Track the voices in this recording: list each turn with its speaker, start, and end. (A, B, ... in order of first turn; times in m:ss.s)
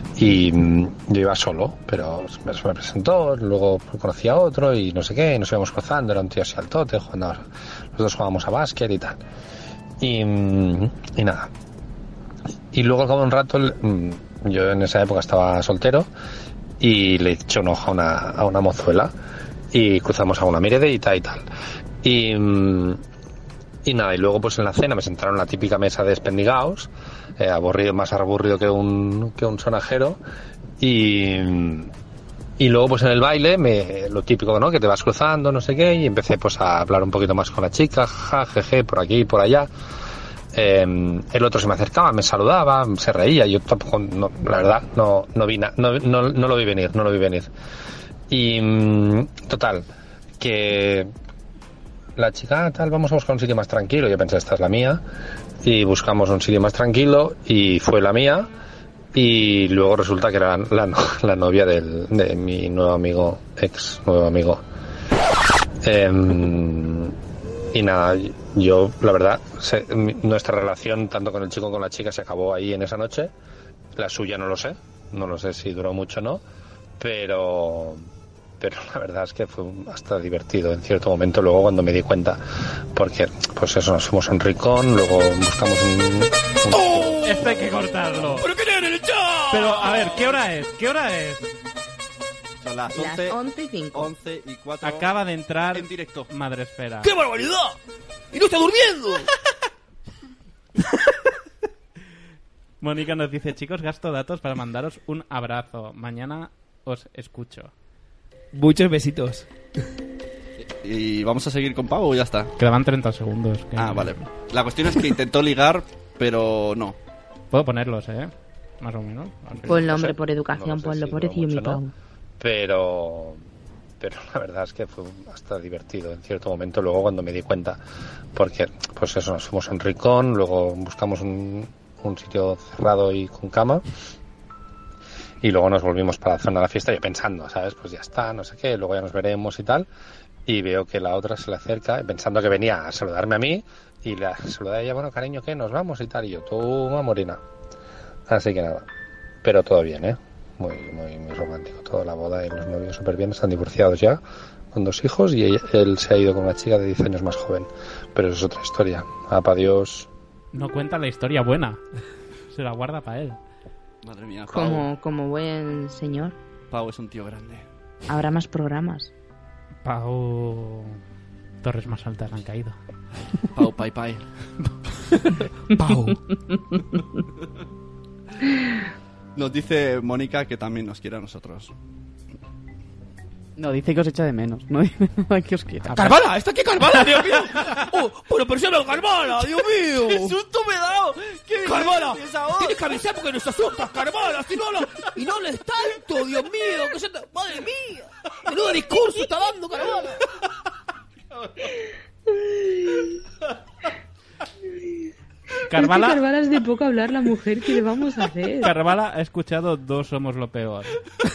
0:00.2-0:09.2 A
0:10.0-0:11.5 A
0:12.7-0:16.1 A
0:16.8-0:19.1 A
0:19.7-0:21.4 A
0:22.0-0:23.0 A
0:23.8-0:30.2 A
0:30.8-0:31.9 A
0:32.6-0:39.7 A
0:40.5-0:47.5 A
0:48.3-0:49.8 A
0:50.4-0:51.1 A
0:52.2-0:55.0 A
0:55.6-0:58.5 A
0:59.1-1:04.6 A
1:05.8-1:07.2 A
1:07.7-1:13.3 A
1:14.0-1:16.4 A
1:17.0-1:18.0 A
1:18.6-1:22.4 A
1:22.9-1:27.2 A
1:26.7-1:30.3 B
1:27.2-1:28.5 C
1:29.5-1:31.5 C
1:32.6-1:33.4 D
1:32.9-1:34.1 E
1:33.9-1:35.1 D
1:34.8-1:37.2 C
1:35.7-1:36.3 D
1:37.0-1:37.8 B
1:38.3-1:39.3 B
1:42.8-1:47.7 C
1:48.5-1:49.5 B
1:50.7-1:52.5 D
1:52.6-1:54.2 C
1:53.8-1:57.0 D
1:57.5-2:00.0 C
1:59.7-2:01.9 E
1:59.8-2:01.8 A
2:02.4-2:03.4 A
2:04.0-2:07.8 A
2:08.3-2:13.8 A
2:15.4-2:19.9 A
2:20.4-2:27.4 A
2:28.3-2:28.8 A
2:29.4-2:34.2 A
2:34.7-2:40.1 A
2:40.5-2:41.8 C
2:42.5-2:43.4 C
2:44.0-2:44.9 D
2:44.5-2:46.4 E
2:46.7-2:47.6 D
2:48.1-2:49.1 E
2:49.8-2:51.0 C
2:51.6-2:52.8 C
2:53.5-2:54.2 D
2:55.7-2:56.2 B
2:59.3-3:01.7 D
3:03.6-3:06.1 F
3:05.9-3:10.3 B
3:10.0-3:13.0 D
3:11.6-3:20.2 B
3:21.3-3:21.6 D
3:25.7-3:26.2 C
3:25.8-3:28.7 E
3:28.6-3:31.0 C